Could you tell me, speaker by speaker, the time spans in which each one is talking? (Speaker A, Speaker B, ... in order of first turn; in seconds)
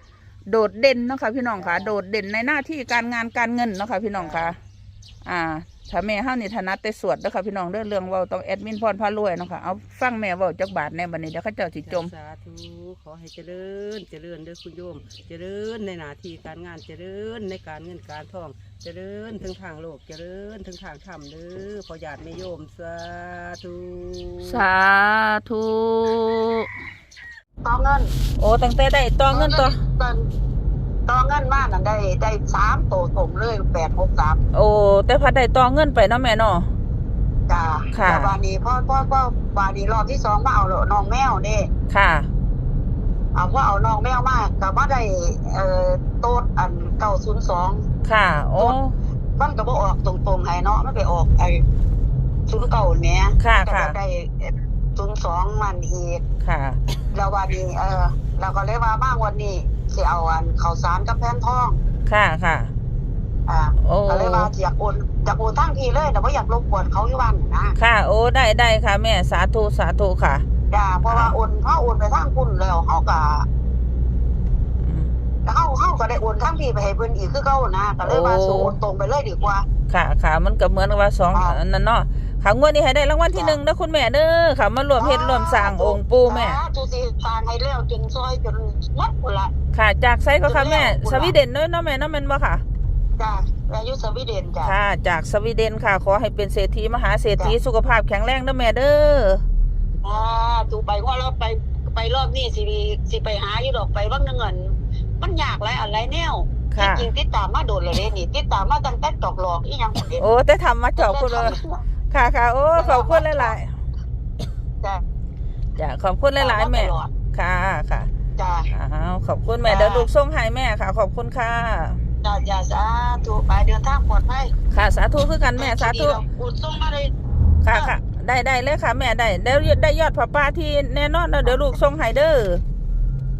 Speaker A: 0.5-4.6, 5.2-12.1, 24.4-26.7, 28.4-29.8, 34.5-36.7, 37.9-38.4, 41.9-42.3, 48.0-49.0, 53.4-54.0, 56.4-56.8, 62.1-62.7, 63.8-64.5, 67.8-70.5, 71.1-71.3, 74.8-75.1, 78.0-78.8, 79.9-86.6, 89.7-92.6, 94.6-99.4, 106.7-107.1, 110.2-111.6, 112.1-113.7, 115.8-118.1, 118.7-122.0, 124.7-126.2, 127.6-132.6
Speaker B: 1.6-2.0, 4.1-4.6, 11.9-24.6
Speaker C: 27.6-28.1, 29.3-30.2, 31.1-34.4, 37.5-41.7, 43.4-47.8, 49.4-51.6, 52.5-56.2, 57.1-61.8, 63.5-67.8, 70.7-73.5, 75.5-79.7, 81.3-81.6, 83.3-83.6, 85.0-89.5, 90.4-91.3, 93.2-94.7, 100.0-110.3, 111.0-111.8, 112.7-113.6, 116.4-117.1, 118.4-118.7, 119.6-120.1, 122.2-124.5, 125.6-127.1, 131.4-131.8